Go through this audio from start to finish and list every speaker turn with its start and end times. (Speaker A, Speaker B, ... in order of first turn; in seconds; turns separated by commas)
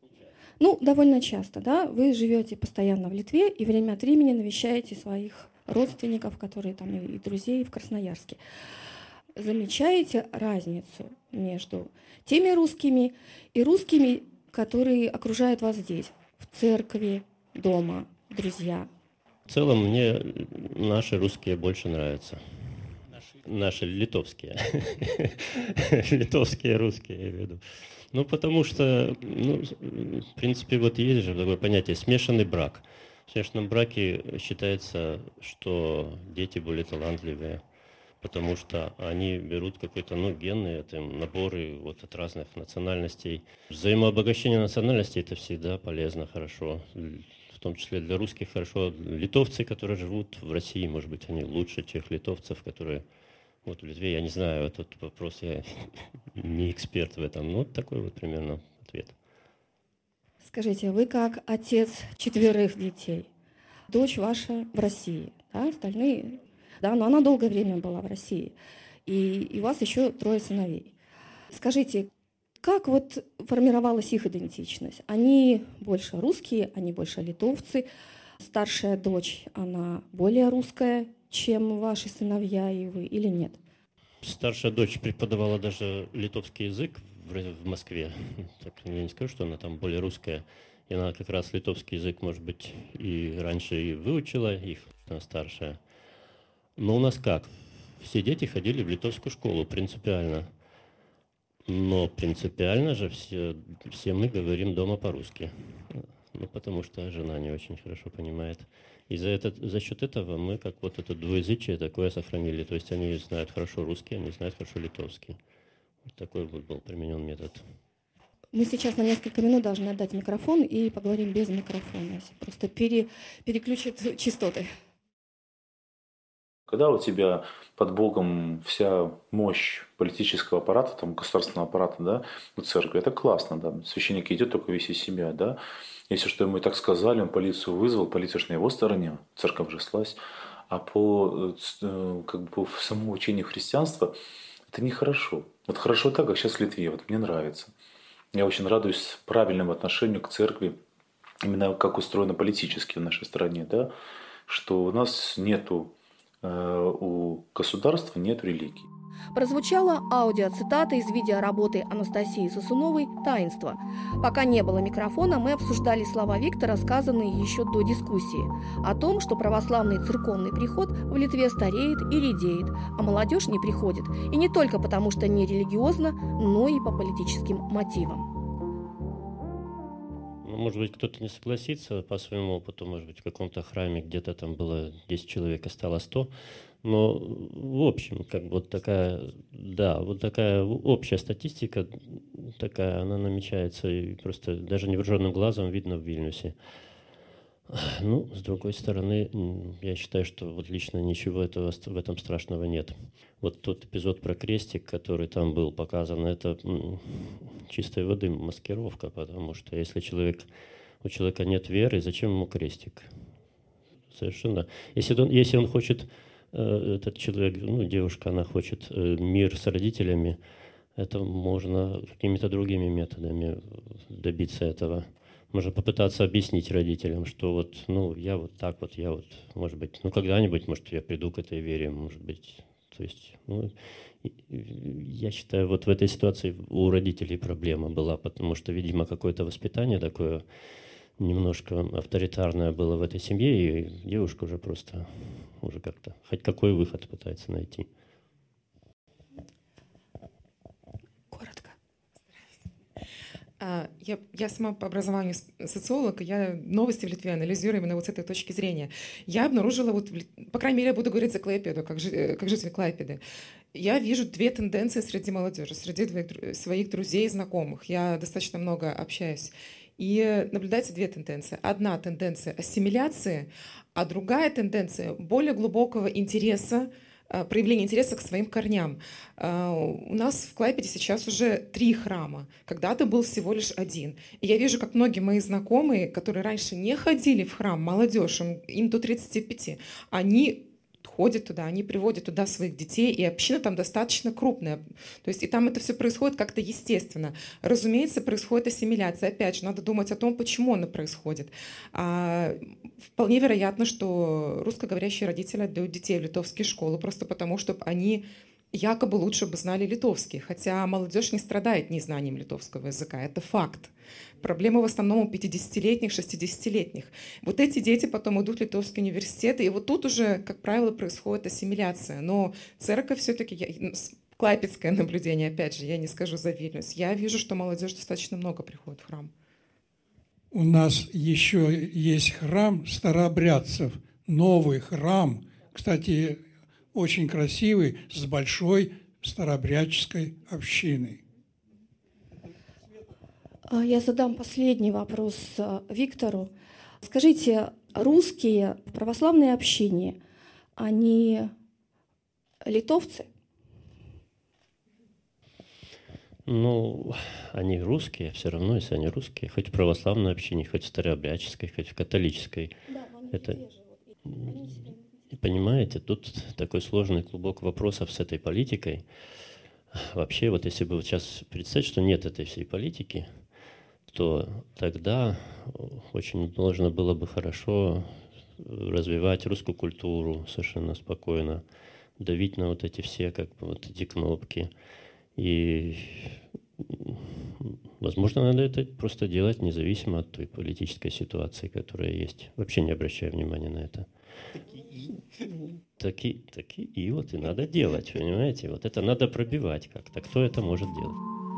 Speaker A: 0.6-8.4, Speaker A: 9.4-18.9, Speaker B: 19.5-22.4, Speaker B: 23.4-37.6, Speaker B: 38.2-53.0, Speaker B: 53.6-59.2, Speaker A: 60.4-63.3, Speaker A: 63.9-68.5, Speaker A: 69.1-70.9, Speaker A: 71.5-72.1, Speaker A: 72.6-77.9, Speaker A: 78.4-83.6, Speaker B: 84.2-95.8, Speaker B: 96.8-100.5, Speaker B: 101.7-115.4, Speaker B: 116.1-117.6, Speaker A: 118.5-124.7, Speaker C: 126.7-135.6, Speaker C: 136.1-140.2, Speaker C: 140.7-144.2, Speaker C: 144.7-147.7, Speaker C: 148.3-150.8, Speaker C: 151.4-153.9, Speaker C: 154.5-155.9, Speaker C: 156.4-158.9, Speaker D: 159.3-178.3, Speaker B: 180.4-186.3, Speaker B: 186.8-196.6, Speaker B: 197.7-210.5, Speaker B: 211.0-213.1, Speaker B: 214.1-220.4, Speaker B: 221.0-240.4, Speaker B: 241.2-247.9, Speaker A: 251.3-251.8, Speaker E: 253.6-263.2, Speaker E: 263.7-329.3, Speaker F: 330.5-341.2, Speaker A: 343.7-346.5, Speaker A: 347.0-350.2, Speaker A: 350.8-351.5, Speaker A: 352.7-353.3, Speaker B: 356.5-362.7, Speaker A: 362.9-365.1, Speaker B: 363.3-363.6, Speaker B: 364.3-364.7, Speaker B: 365.3-369.0, Speaker B: 369.9-373.3, Speaker B: 374.1-381.6, Speaker B: 382.2-384.7, Speaker B: 385.4-394.1, Speaker B: 396.0-401.2